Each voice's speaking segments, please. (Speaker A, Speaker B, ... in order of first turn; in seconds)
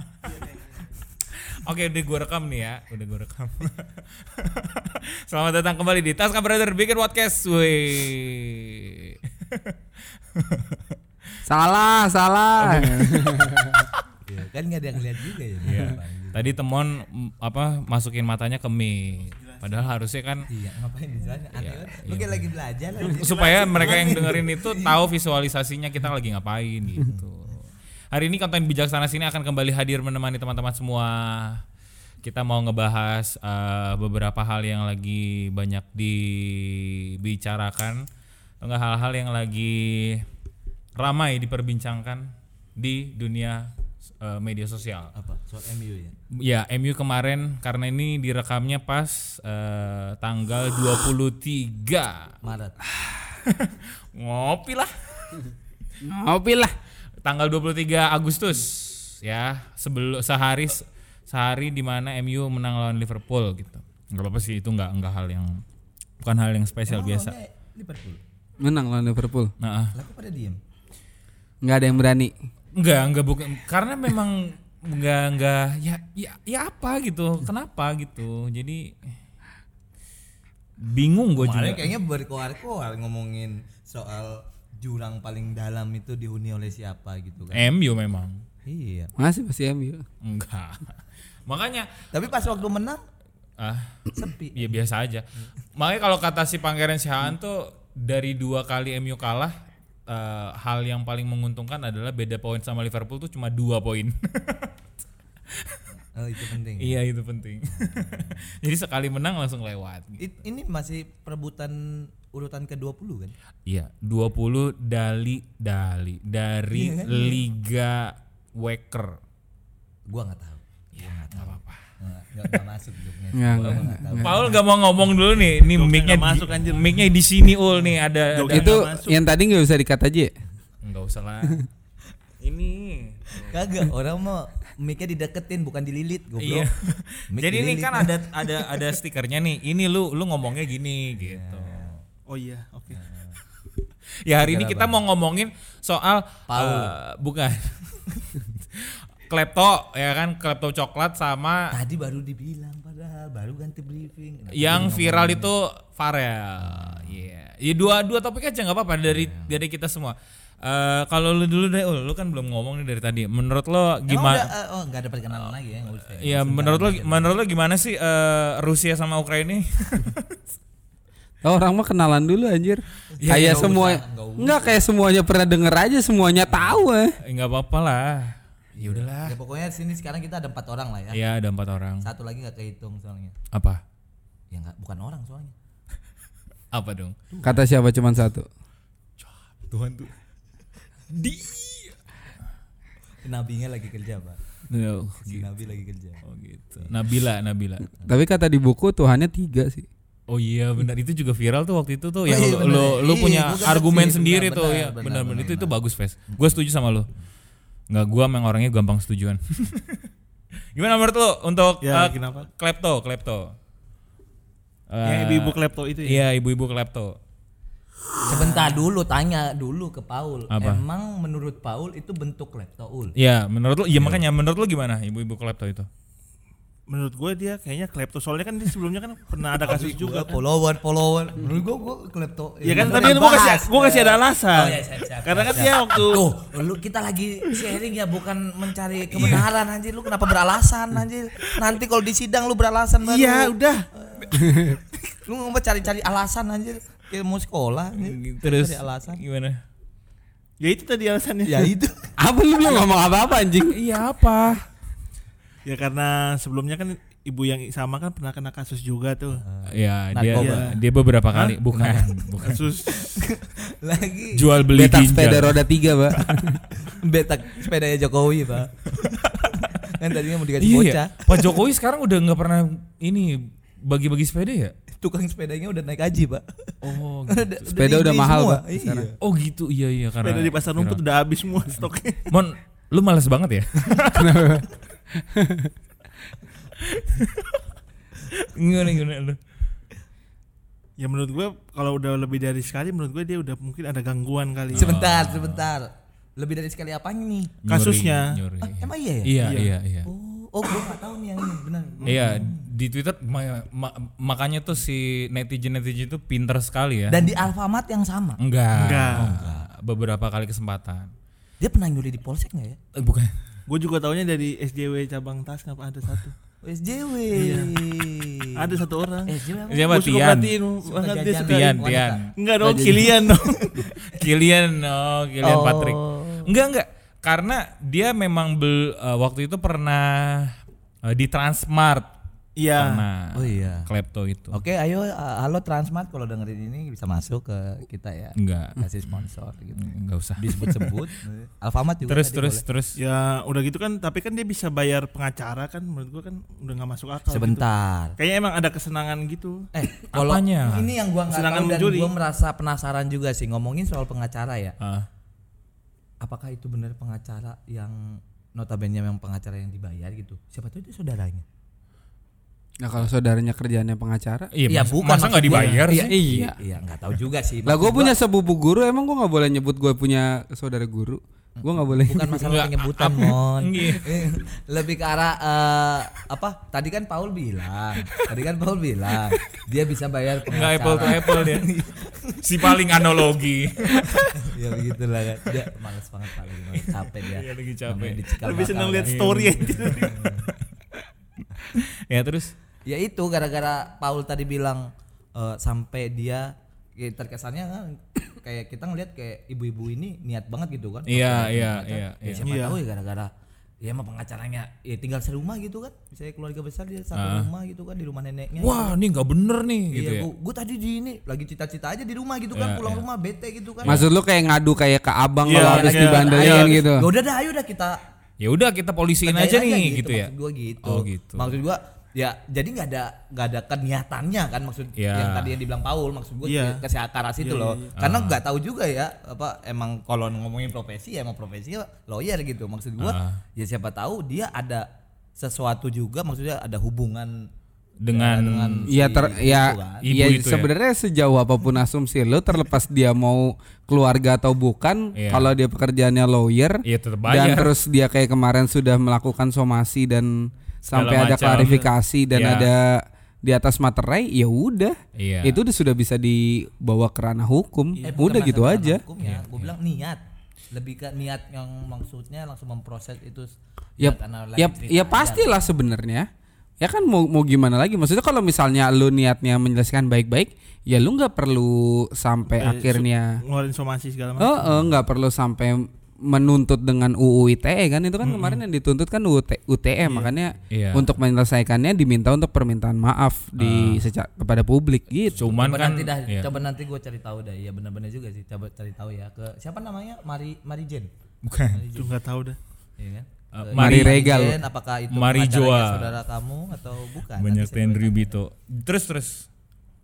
Speaker A: 1.4-9.8, 10.3-11.0, 12.6-13.4, 15.6-20.5, 21.6-22.5, 23.0-31.6, 32.2-38.1, 38.6-40.2, 41.0-45.1, 46.4-52.4, 53.4-55.4, 57.2-65.6, 66.2-67.3, 69.6-69.9, 72.8-79.0, 80.8-81.9, 87.5-88.4, 90.2-90.9, 91.5-92.0, 93.6-99.5, 100.1-104.7, 105.5-105.8, 106.8-110.3, 113.7-119.2, 121.0-121.8, 123.8-128.9, 130.8-131.7, 132.4-133.6, 136.4-141.8, 144.3-148.1, 148.8-151.7, 154.5-164.5, 166.2-170.3, 173.2-173.7, 177.2-179.4, 181.1-182.1, 183.5-183.8, 186.7-187.2, 189.6-190.1, 191.1-192.0, 194.7-195.4, 196.2-197.9, 200.3-207.1, 207.9-210.1, 210.8-213.5, 214.9-217.2, 220.5-220.8, 223.2-225.9, 239.2-239.4, 248.0-249.6, 253.7-254.6, 259.7-262.7, 264.3-265.6, 270.6-274.7, 276.8-277.6, 279.2-281.0, 281.7-284.4, 286.8-287.6, 288.3-289.4, 294.7-295.7, 297.6-300.1, 302.1-307.4, 308.4-311.1, 312.9-313.3, 319.7-320.6, 321.4-322.2, 324.1-332.1, 332.8-334.6, 338.4-340.9, 342.1-343.0, 350.1-350.9, 354.8-355.1, 364.5-366.5, 372.4-374.2, 380.5-381.7, 382.4-384.4, 386.8-388.2, 389.0-390.1, 391.7-392.5, 401.1-402.5, 407.1-407.5, 408.6-410.3, 412.6-413.0, 418.4-420.3, 420.8-421.6, 425.0-425.5, 428.0-428.4, 433.0-433.4, 438.0-438.9, 440.0-440.7, 445.2-445.5, 446.9-447.7, 450.9-452.7, 455.2-455.6, 459.2-459.7, 480.7-481.1, 483.6-484.1, 485.3-486.5, 491.4-491.8, 493.6-494.2, 495.1-496.2, 497.4-499.5
Speaker B: 11.5-13.9, 56.0-56.8, 68.6-69.5, 71.6-72.3, 89.2-90.0, 123.3-124.5, 128.5-130.3, 171.4-177.2, 187.4-188.5, 198.1-199.9, 252.2-253.8, 264.7-266.6, 277.8-279.1, 284.1-284.6, 285.2-285.7, 362.8-364.5, 366.1-366.6, 367.6-372.6, 413.8-417.1, 438.9-450.3, 450.8-459.0, 464.0-466.3, 466.8-473.4, 474.4-485.5, 493.8-494.6
Speaker C: 14.3-16.5, 20.5-25.0, 45.1-46.1, 52.4-52.8, 66.9-68.2, 69.9-70.6, 81.4-87.7, 88.7-89.1, 92.1-93.0, 94.1-94.8, 106.2-107.0, 107.7-108.5, 110.2-113.3, 116.7-117.4, 120.1-124.6, 133.5-136.7, 137.3-138.8, 141.2-142.0, 142.9-143.4, 144.4-145.0, 146.5-146.9, 151.7-155.5, 156.6-157.1, 159.1-159.6, 164.1-167.3, 173.2-174.8, 178.8-181.2, 182.0-183.3, 184.5-185.5, 187.3-187.7, 193.2-194.4, 195.2-196.2, 202.3-205.7, 218.3-223.2, 229.6-249.2, 251.5-252.1, 259.4-260.7, 261.7-262.2, 262.9-264.6, 266.9-271.5, 275.0-276.7, 277.3-279.2, 294.8-297.5, 298.6-302.7, 307.1-308.4, 309.1-309.7, 311.6-312.8, 316.6-320.1, 320.8-324.0, 325.4-326.5, 333.3-333.9, 334.5-339.9, 340.4-342.6, 347.3-348.2, 349.7-354.8, 356.2-361.4, 364.7-368.2, 371.6-382.8, 384.3-390.5, 392.9-403.3, 403.8-408.9, 409.9-414.0, 415.5-418.0, 419.2-434.9, 435.4-437.5, 438.1-440.1, 458.0-460.2, 460.7-465.6, 485.5-491.1, 491.7-492.1, 493.0-498.4
Speaker D: 19.4-19.7, 23.8-24.1, 125.6-126.9, 128.3-129.2, 142.3-143.0, 211.8-212.5, 215.0-216.2, 218.2-218.8, 226.9-230.4, 232.7-236.2, 243.1-243.9, 250.6-251.7, 255.7-259.4, 260.4-260.8, 261.3-261.6, 262.4-263.0, 280.2-282.3, 291.0-294.9, 297.7-298.4, 299.4-299.7, 302.1-302.3, 308.7-309.4, 313.7-316.3, 317.3-317.8, 318.6-319.3, 319.9-321.8, 322.4-323.9, 332.6-333.0, 343.0-347.6, 348.2-349.7, 351.3-352.1, 388.4-390.2, 402.4-402.8, 415.4-416.8, 426.4-426.8, 427.4-427.9, 472.5-474.6, 480.1-480.3, 492.0-492.6